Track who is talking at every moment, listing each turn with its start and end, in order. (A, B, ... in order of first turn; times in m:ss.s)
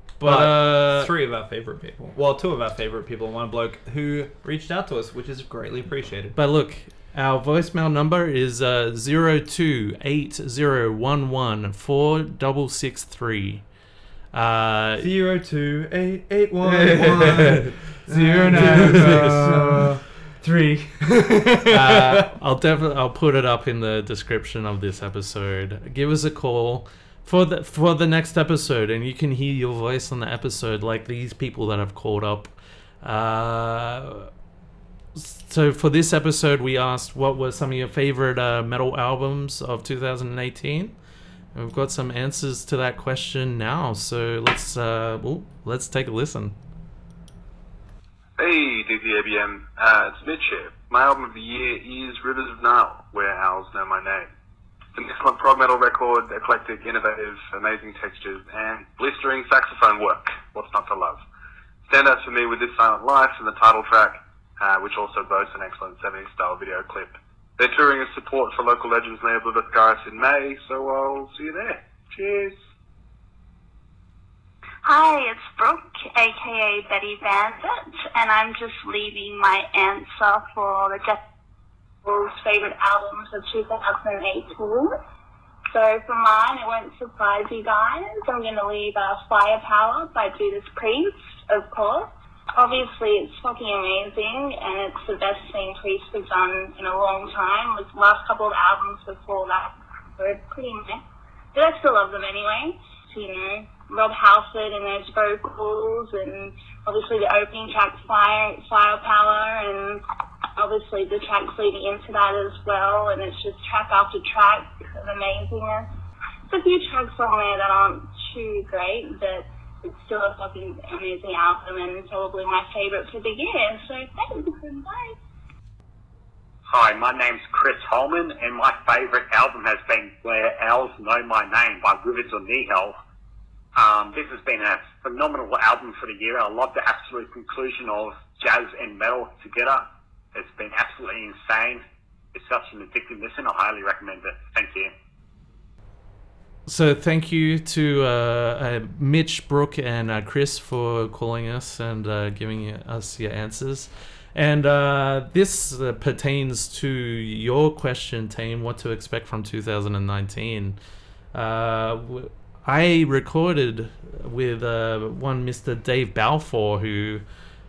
0:00.2-0:01.1 A
0:00.2-0:06.4 B
0:06.3-0:13.6 A
0:14.3-0:15.1 A
0:15.0-0:19.9 B
0:16.6-0:21.2 C
0:18.5-0:19.4 A
0:21.0-0:22.0 B
0:21.7-0:34.3 A
0:35.2-0:41.0 A
0:41.6-0:46.6 A
0:48.4-0:54.3 D
0:54.9-1:01.2 D
1:01.9-1:12.6 D
1:14.8-1:21.2 E
1:22.0-1:24.9 E
1:25.7-1:41.0 E
1:41.5-1:50.0 E
1:50.6-1:55.9 E
1:56.5-2:05.2 E
2:06.7-2:13.0 F
2:13.8-2:21.8 F
2:22.3-2:24.9 F
2:26.7-2:40.8 A
2:41.3-2:47.2 A